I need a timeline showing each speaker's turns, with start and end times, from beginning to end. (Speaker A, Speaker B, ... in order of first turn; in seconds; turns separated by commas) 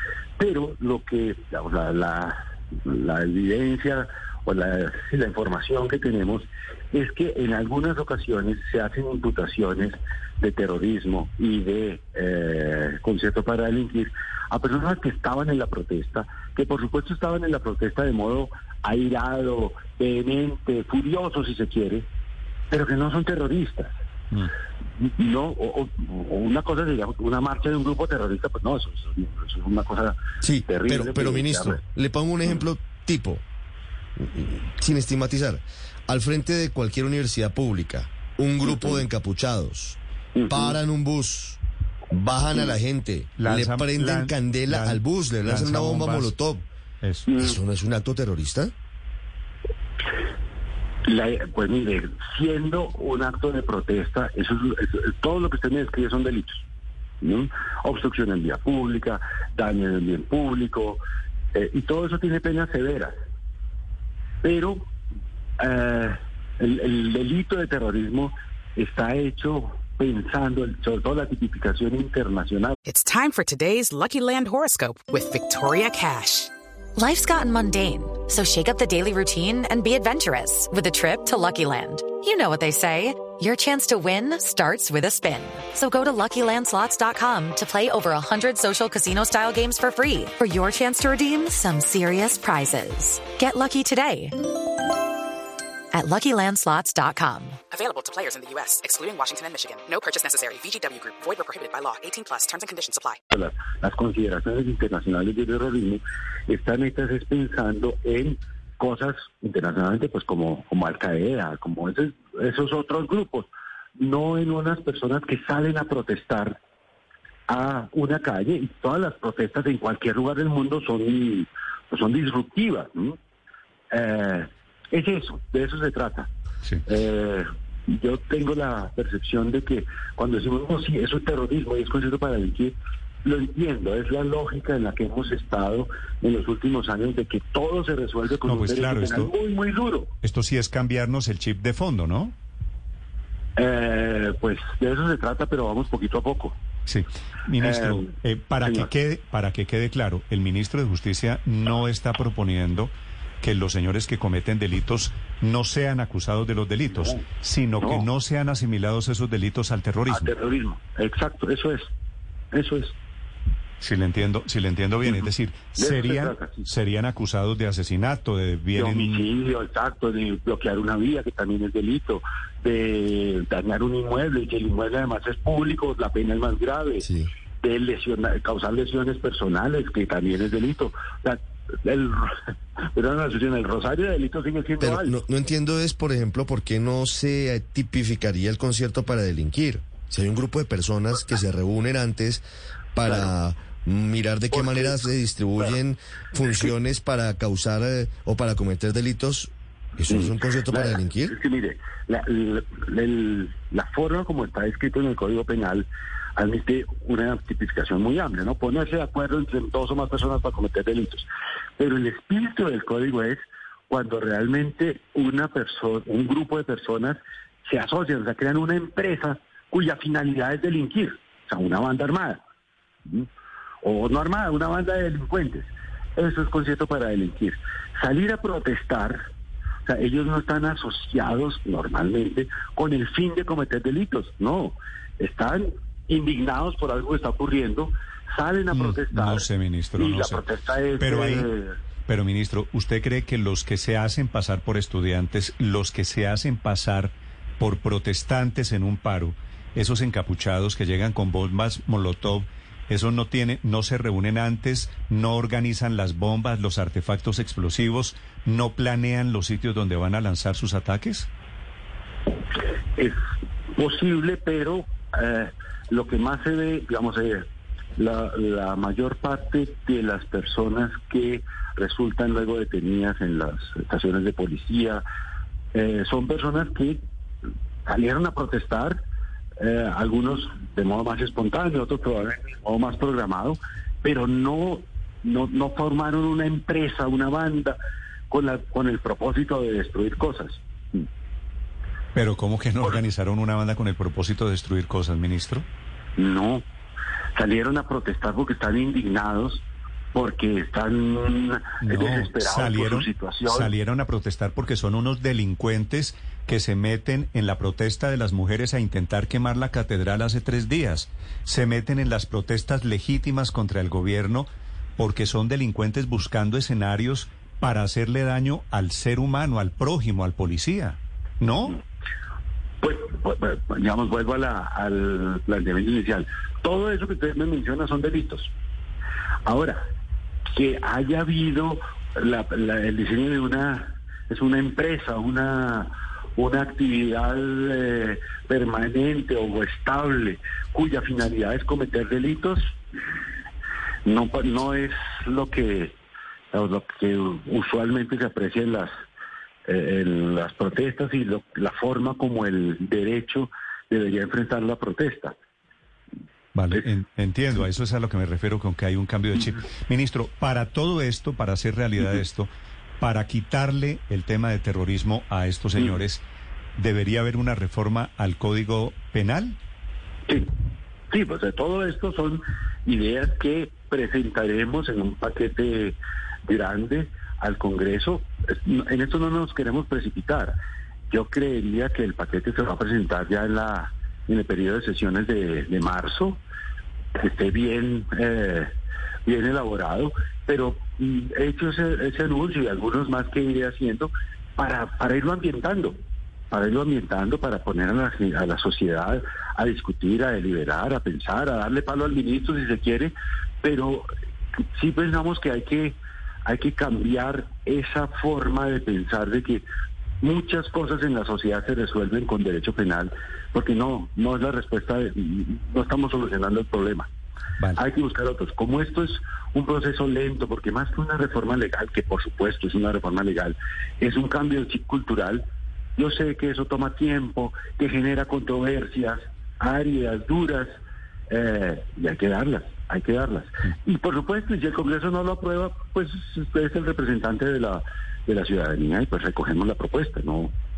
Speaker A: 0.4-22.1, Speaker A: 22.7-23.9, Speaker A: 25.0-31.8, Speaker B: 30.4-33.4, Speaker B: 34.1-46.6, Speaker A: 38.6-39.0, Speaker A: 40.3-40.8, Speaker C: 43.4-47.3, Speaker A: 47.3-47.6, Speaker B: 47.4-48.7, Speaker A: 51.0-56.6, Speaker A: 57.2-61.0, Speaker A: 61.5-63.2, Speaker A: 64.4-64.9, Speaker A: 65.6-72.8, Speaker D: 72.8-76.5, Speaker E: 77.0-94.4, Speaker E: 95.9-97.6, Speaker D: 97.7-103.2, Speaker A: 103.3-116.6, Speaker A: 117.5-123.2, Speaker A: 123.9-126.3, Speaker A: 126.8-140.1, Speaker C: 138.4-139.3, Speaker C: 140.2-142.3, Speaker A: 143.6-146.6, Speaker C: 146.8-160.3, Speaker A: 147.6-148.1, Speaker A: 148.6-148.9, Speaker A: 157.8-158.1, Speaker A: 160.1-161.9, Speaker A: 162.5-162.9, Speaker C: 163.8-169.2, Speaker A: 165.0-166.7, Speaker A: 168.7-177.1, Speaker B: 177.0-177.3, Speaker A: 177.6-182.4, Speaker A: 182.9-185.2, Speaker B: 184.8-201.3, Speaker A: 193.1-193.3, Speaker A: 194.5-195.0, Speaker A: 200.1-211.2, Speaker A: 211.8-222.4, Speaker A: 223.8-229.2, Speaker A: 229.8-239.4, Speaker C: 238.7-240.4, Speaker A: 240.0-241.8, Speaker C: 241.0-241.5, Speaker C: 242.1-261.3, Speaker A: 263.7-267.4, Speaker A: 267.9-275.0, Speaker A: 275.7-277.0, Speaker A: 277.8-279.0, Speaker A: 279.6-287.8, Speaker A: 288.3-291.0, Speaker C: 292.1-295.6, Speaker A: 296.2-296.6, Speaker A: 297.3-303.7, Speaker C: 301.8-321.8, Speaker A: 322.8-328.5, Speaker A: 329.4-329.8, Speaker A: 330.5-342.7, Speaker A: 344.0-345.9, Speaker A: 346.5-348.9, Speaker A: 349.6-355.3, Speaker C: 356.5-366.2, Speaker C: 366.8-369.6, Speaker A: 371.1-380.5, Speaker A: 381.1-386.4, Speaker A: 387.1-388.7, Speaker A: 389.2-396.0, Speaker A: 396.5-404.1, Speaker A: 404.7-409.6, Speaker A: 410.2-417.1, Speaker A: 417.8-425.4, Speaker A: 426.0-430.8, Speaker A: 431.3-440.5